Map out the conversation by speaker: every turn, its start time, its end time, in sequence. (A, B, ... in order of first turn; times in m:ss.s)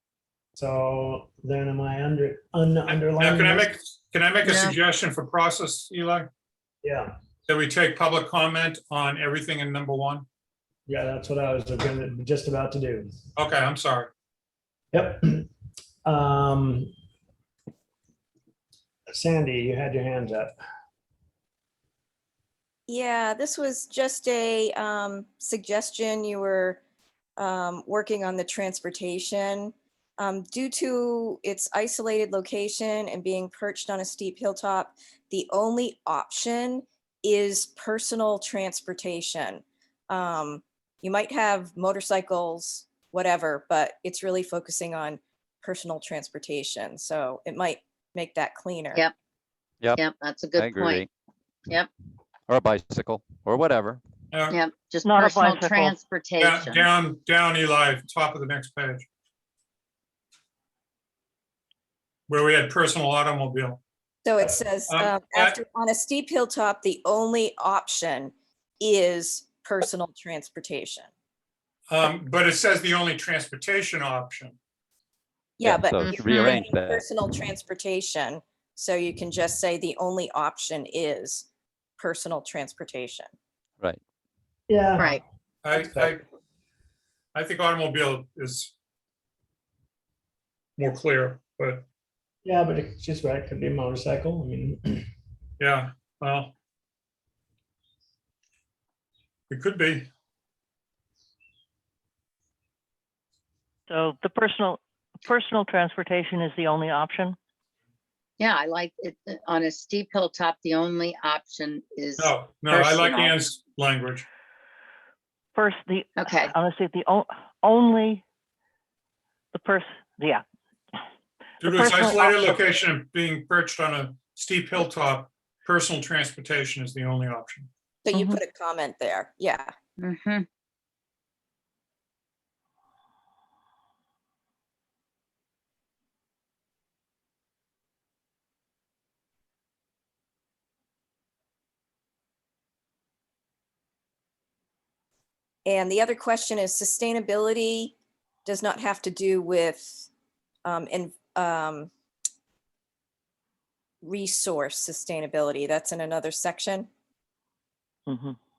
0:00.6-0:03.7 A
0:02.9-0:06.3 B
0:04.4-0:04.7 C
0:06.8-0:07.1 A
0:07.5-0:10.2 B
0:10.9-0:13.1 A
0:13.4-0:14.1 B
0:14.9-0:15.5 A
0:16.0-0:16.9 A
0:19.1-0:20.5 A
0:22.9-0:26.8 D
0:27.4-0:49.0 D
0:50.0-0:51.0 C
0:50.5-0:51.1 E
0:52.5-0:54.0 E
0:54.3-0:54.6 B
0:54.5-0:56.9 C
0:55.0-0:56.0 F
0:56.4-0:59.1 B
1:02.3-1:03.8 B
1:04.2-1:11.1 D
1:04.9-1:05.6 B
1:11.9-1:14.6 B
1:15.6-1:21.5 D
1:15.6-1:17.1 E
1:16.0-1:16.5 C
1:22.0-1:23.3 D
1:24.7-1:25.2 A
1:25.6-1:26.2 B
1:25.7-1:26.2 A
1:27.3-1:28.7 B
1:30.8-1:31.8 B
1:32.4-1:35.0 A
1:35.6-1:36.5 B
1:39.5-1:40.1 B
1:43.9-1:47.4 F
1:48.4-1:53.3 C
1:52.2-1:54.2 B
1:55.5-1:58.2 F
1:56.2-1:56.5 C
1:59.5-2:00.4 F
2:01.6-2:02.6 F
2:01.6-2:07.7 B
2:08.0-2:09.7 D
2:08.1-2:08.4 F
2:10.0-2:10.4 C
2:25.6-2:27.9 D
2:28.4-2:30.1 D
2:30.6-2:31.9 D
2:34.0-2:36.9 D
2:38.1-2:38.4 F